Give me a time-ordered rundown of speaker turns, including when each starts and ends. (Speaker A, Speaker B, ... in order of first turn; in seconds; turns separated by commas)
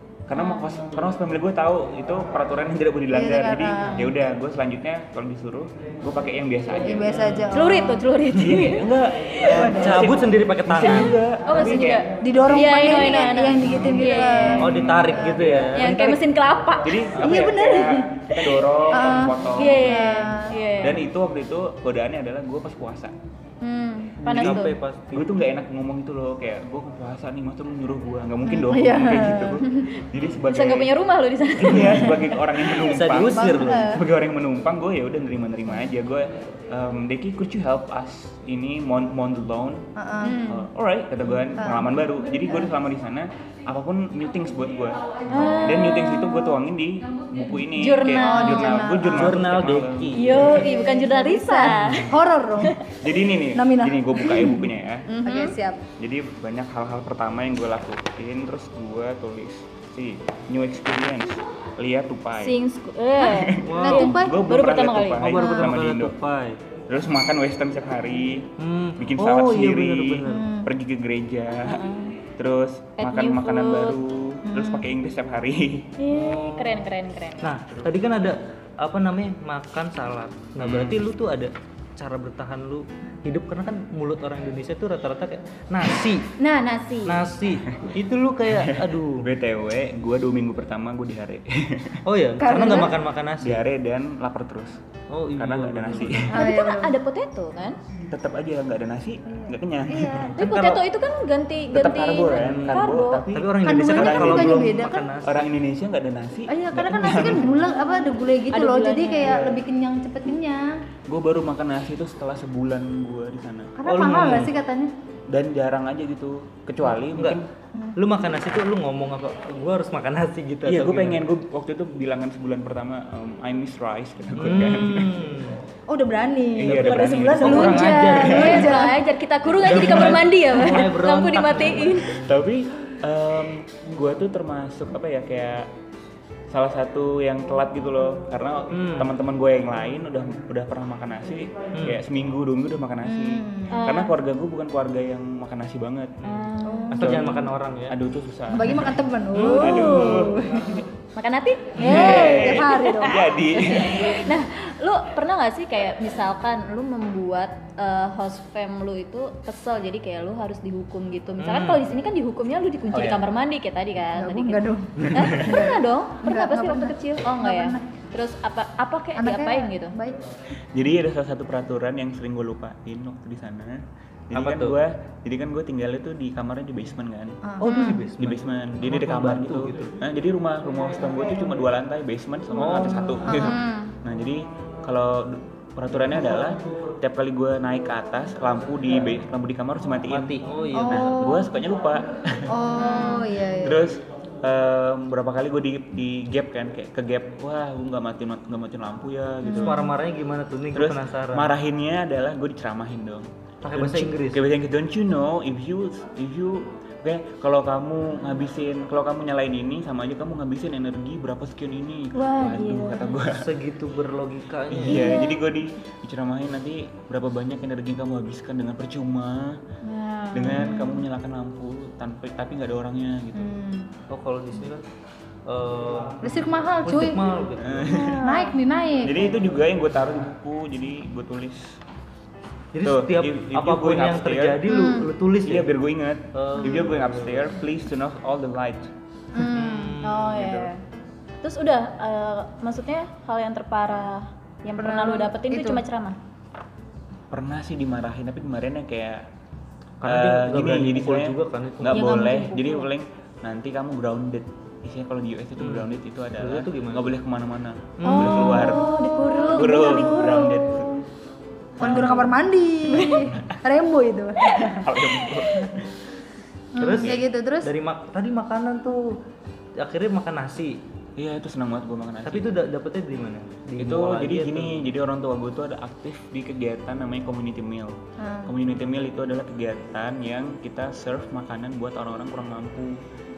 Speaker A: 0.3-7.1, Speaker B: 3.1-4.1, Speaker B: 6.8-8.0, Speaker C: 7.1-7.5, Speaker D: 7.5-9.5, Speaker A: 8.3-12.1, Speaker C: 9.5-11.2, Speaker B: 9.5-10.0, Speaker D: 11.0-14.8, Speaker B: 12.2-15.7, Speaker A: 13.6-16.2, Speaker C: 14.6-15.9, Speaker D: 15.7-17.1, Speaker A: 16.8-20.2, Speaker C: 17.1-17.4, Speaker B: 17.2-18.1, Speaker B: 18.9-20.6, Speaker D: 19.5-21.0, Speaker A: 20.8-23.1, Speaker D: 23.6-24.8, Speaker C: 24.2-25.3, Speaker A: 24.3-30.9, Speaker B: 28.5-29.6, Speaker D: 29.6-32.4, Speaker A: 31.6-39.9, Speaker C: 31.7-31.9, Speaker C: 32.7-33.9, Speaker B: 33.3-33.9, Speaker D: 33.5-34.0, Speaker B: 40.0-40.4, Speaker D: 40.2-40.7, Speaker A: 40.5-50.5, Speaker B: 41.6-41.9, Speaker D: 45.3-46.6, Speaker D: 47.8-48.9, Speaker B: 48.1-49.4, Speaker C: 49.0-50.6, Speaker D: 50.1-52.8, Speaker B: 50.4-52.8, Speaker C: 51.6-52.1, Speaker A: 53.0-55.1, Speaker B: 53.5-54.6, Speaker D: 55.1-55.5, Speaker B: 55.2-55.8, Speaker A: 56.0-62.6, Speaker D: 62.4-65.3, Speaker A: 63.2-66.2, Speaker C: 63.6-64.1, Speaker B: 63.8-64.4, Speaker C: 65.2-66.6, Speaker B: 65.4-65.7, Speaker A: 66.9-71.8, Speaker C: 68.6-70.5, Speaker B: 70.3-70.7, Speaker D: 71.6-72.2, Speaker A: 72.4-75.9, Speaker D: 73.0-74.0, Speaker B: 74.5-74.9, Speaker D: 76.0-77.5, Speaker C: 76.1-76.9, Speaker C: 77.4-86.3, Speaker A: 80.6-81.1, Speaker D: 86.4-87.3, Speaker C: 87.1-89.3, Speaker A: 88.5-92.0, Speaker C: 92.0-93.6, Speaker B: 92.4-92.9, Speaker A: 93.4-94.8, Speaker C: 95.1-96.3, Speaker A: 95.3-96.3, Speaker D: 96.3-97.8, Speaker B: 96.3-97.0, Speaker A: 98.1-100.8, Speaker B: 99.3-100.4, Speaker D: 100.4-103.3, Speaker A: 101.7-107.6, Speaker C: 102.4-105.4, Speaker B: 103.6-105.1, Speaker B: 106.5-110.7, Speaker D: 108.5-109.5, Speaker A: 111.1-113.8, Speaker B: 113.8-114.9, Speaker C: 113.9-114.5, Speaker A: 115.3-117.5, Speaker C: 117.1-117.4, Speaker C: 118.0-121.2, Speaker A: 120.6-125.2, Speaker C: 124.3-125.6, Speaker B: 125.9-129.0, Speaker A: 126.6-128.7, Speaker C: 126.7-128.8, Speaker D: 128.1-132.2, Speaker C: 129.5-132.4, Speaker A: 132.2-135.7, Speaker A: 136.5-146.2, Speaker C: 138.7-139.1, Speaker C: 141.8-142.0, Speaker B: 143.1-143.8, Speaker D: 143.7-144.1, Speaker D: 146.2-147.0, Speaker B: 146.6-147.4, Speaker A: 146.9-150.8, Speaker C: 146.9-147.9, Speaker B: 148.5-150.8, Speaker C: 149.3-150.2, Speaker D: 149.7-150.1, Speaker D: 151.2-164.6, Speaker C: 151.8-152.2, Speaker A: 151.8-154.3, Speaker B: 151.9-153.1, Speaker C: 161.4-161.8, Speaker C: 162.9-163.2, Speaker B: 164.1-167.8, Speaker D: 165.1-169.9, Speaker B: 169.2-170.2, Speaker A: 170.7-177.4, Speaker C: 174.3-174.8, Speaker B: 177.4-178.0, Speaker C: 177.6-179.9, Speaker D: 177.7-178.0, Speaker A: 178.2-190.3, Speaker C: 182.5-183.2, Speaker B: 183.2-183.6, Speaker D: 183.3-183.9, Speaker C: 190.1-191.4, Speaker B: 190.8-191.5, Speaker A: 190.9-192.5, Speaker B: 192.5-193.9, Speaker D: 192.8-193.2, Speaker A: 193.6-199.9, Speaker C: 199.6-201.5, Speaker A: 200.7-213.5, Speaker C: 203.6-204.4, Speaker D: 212.1-213.2, Speaker C: 213.3-215.2, Speaker A: 214.7-219.6, Speaker D: 214.9-215.4, Speaker D: 219.8-221.1, Speaker A: 220.3-223.4, Speaker B: 223.3-223.9, Speaker C: 224.1-224.8, Speaker C: 225.4-227.9, Speaker B: 226.2-227.3, Speaker A: 227.6-228.2, Speaker B: 227.9-229.4, Speaker D: 227.9-228.5, Speaker A: 229.0-231.8, Speaker C: 232.7-235.7, Speaker A: 232.8-234.6, Speaker D: 234.7-235.1, Speaker A: 235.4-238.9, Speaker C: 236.3-237.6, Speaker B: 239.3-239.9, Speaker D: 239.4-240.8, Speaker C: 239.4-240.4, Speaker A: 240.3-240.7, Speaker D: 241.4-246.2, Speaker B: 244.8-245.8, Speaker A: 247.3-249.3, Speaker C: 250.0-252.4, Speaker A: 250.1-258.9, Speaker D: 251.9-252.8, Speaker C: 255.6-257.1, Speaker C: 258.0-258.8, Speaker B: 258.1-260.6, Speaker D: 258.1-260.9, Speaker A: 259.5-261.0, Speaker A: 261.8-262.2, Speaker B: 261.8-265.0, Speaker C: 261.8-262.3, Speaker D: 262.9-263.3, Speaker A: 264.6-265.9, Speaker D: 266.7-267.1, Speaker C: 266.8-269.2, Speaker B: 266.9-267.7, Speaker C: 269.8-270.8, Speaker A: 271.2-272.5, Speaker C: 272.3-274.9, Speaker A: 273.8-283.0, Speaker B: 278.2-278.5